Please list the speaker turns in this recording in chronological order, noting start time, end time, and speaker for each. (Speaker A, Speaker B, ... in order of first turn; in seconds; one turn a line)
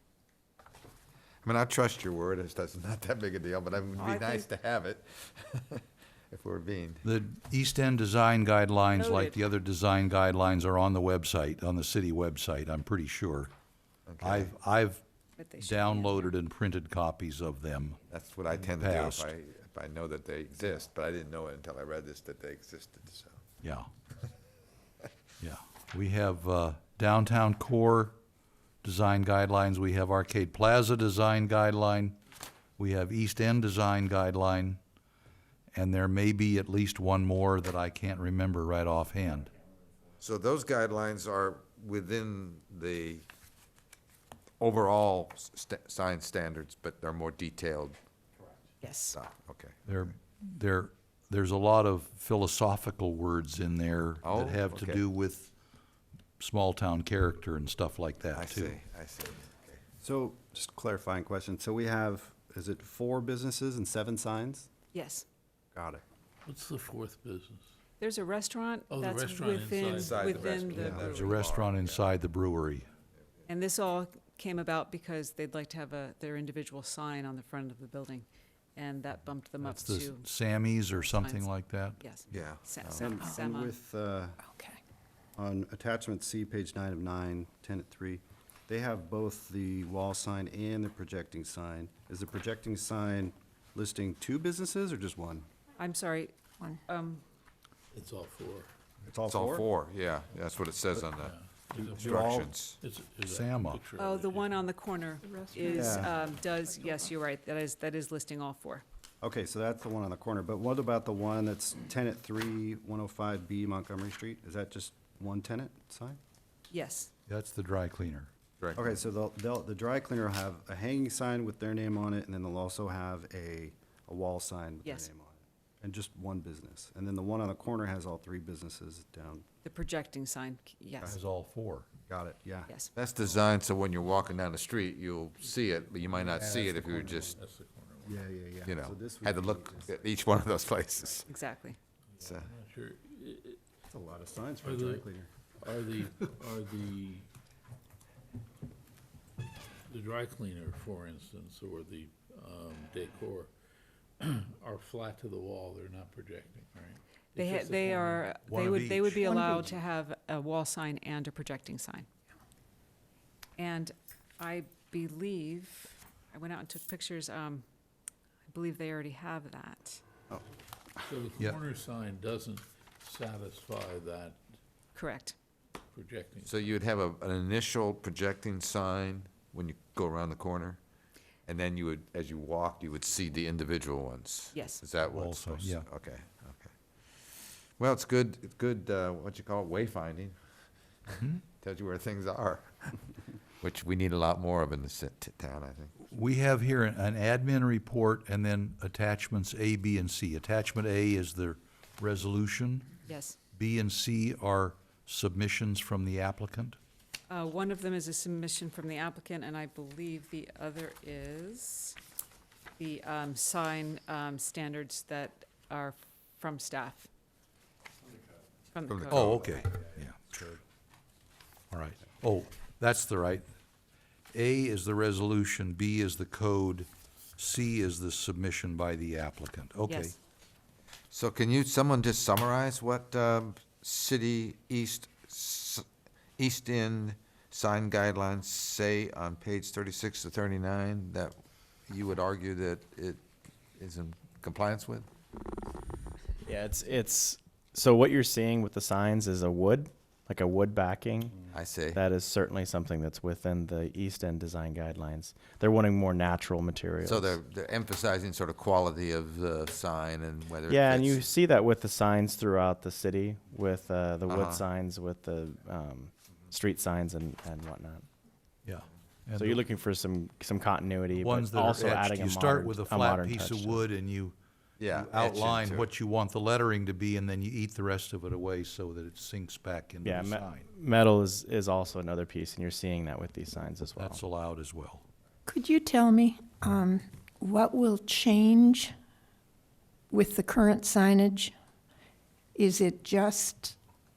Speaker A: 1.4-7.0
Speaker B: 4.0-4.5
Speaker C: 7.0-13.5
Speaker B: 8.9-9.5
Speaker A: 14.1-14.5
Speaker C: 14.2-15.0
Speaker B: 15.4-16.3
Speaker C: 15.6-18.0
Speaker A: 18.1-23.4
Speaker C: 18.6-19.3
Speaker C: 23.6-23.9
Speaker C: 25.4-28.2
Speaker C: 28.8-32.2
Speaker C: 32.8-34.8
Speaker C: 35.7-39.5
Speaker A: 40.2-43.2
Speaker A: 44.6-48.0
Speaker B: 48.8-49.2
Speaker A: 49.1-49.8
Speaker C: 49.9-55.5
Speaker A: 54.2-55.0
Speaker C: 56.4-58.8
Speaker A: 58.3-59.8
Speaker D: 60.0-64.7
Speaker B: 64.9-65.3
Speaker D: 65.7-66.0
Speaker E: 66.5-67.7
Speaker B: 68.0-71.4
Speaker E: 68.9-70.7
Speaker A: 69.9-72.0
Speaker D: 70.8-71.1
Speaker C: 70.8-72.9
Speaker B: 73.5-80.3
Speaker C: 79.6-82.0
Speaker B: 81.0-83.7
Speaker A: 82.3-83.1
Speaker D: 83.0-84.4
Speaker F: 84.4-84.8
Speaker D: 85.4-95.5
Speaker B: 95.8-96.3
Speaker B: 96.9-97.2
Speaker E: 97.9-98.7
Speaker D: 99.0-99.7
Speaker A: 99.3-101.3
Speaker E: 101.0-104.6
Speaker D: 101.7-102.6
Speaker A: 102.1-102.8
Speaker C: 103.2-103.8
Speaker B: 104.0-108.8
Speaker F: 105.2-106.0
Speaker D: 105.8-106.1
Speaker F: 106.6-107.1
Speaker D: 109.2-116.2
Speaker B: 116.7-117.1
Speaker C: 117.3-118.3
Speaker A: 118.6-119.0
Speaker D: 118.8-129.4
Speaker B: 124.8-125.1
Speaker B: 129.6-131.2
Speaker C: 131.1-131.9
Speaker D: 132.1-132.8
Speaker B: 132.7-132.9
Speaker A: 132.9-137.3
Speaker E: 136.0-138.2
Speaker D: 136.7-137.4
Speaker D: 138.0-140.2
Speaker A: 138.6-141.3
Speaker B: 141.3-141.8
Speaker E: 142.2-143.6
Speaker A: 142.2-142.5
Speaker D: 143.9-145.3
Speaker E: 144.6-145.1
Speaker E: 145.6-147.3
Speaker E: 149.9-153.5
Speaker E: 154.2-158.3
Speaker B: 157.4-162.1
Speaker C: 158.5-159.4
Speaker F: 159.3-159.7
Speaker B: 163.6-167.7
Speaker B: 168.5-170.0
Speaker E: 171.1-174.4
Speaker B: 174.9-175.4
Speaker E: 175.9-176.8
Speaker A: 176.4-180.8
Speaker A: 181.5-186.7
Speaker B: 184.5-184.8
Speaker C: 185.0-185.8
Speaker A: 187.8-190.4
Speaker C: 191.1-191.4
Speaker A: 191.6-193.0
Speaker A: 193.6-196.0
Speaker C: 196.1-203.0
Speaker B: 203.1-203.4
Speaker C: 203.6-206.8
Speaker B: 207.3-212.0
Speaker B: 212.8-217.1
Speaker B: 218.7-219.5
Speaker A: 218.9-219.9
Speaker C: 219.1-220.6
Speaker C: 221.7-223.5
Speaker C: 224.3-230.2
Speaker B: 229.9-230.2
Speaker A: 231.1-235.8
Speaker A: 236.4-241.4
Speaker A: 241.9-243.2
Speaker A: 243.8-245.1
Speaker G: 246.4-257.4
Speaker A: 251.5-252.0
Speaker A: 257.0-261.3
Speaker G: 260.7-268.0
Speaker A: 264.3-264.6
Speaker C: 268.6-269.6
Speaker G: 269.3-273.9
Speaker C: 271.1-274.4
Speaker A: 274.8-275.9
Speaker C: 274.9-280.6
Speaker G: 280.0-284.2
Speaker C: 284.0-285.0
Speaker F: 285.5-288.9
Speaker F: 290.1-291.5
Speaker F: 292.6-293.8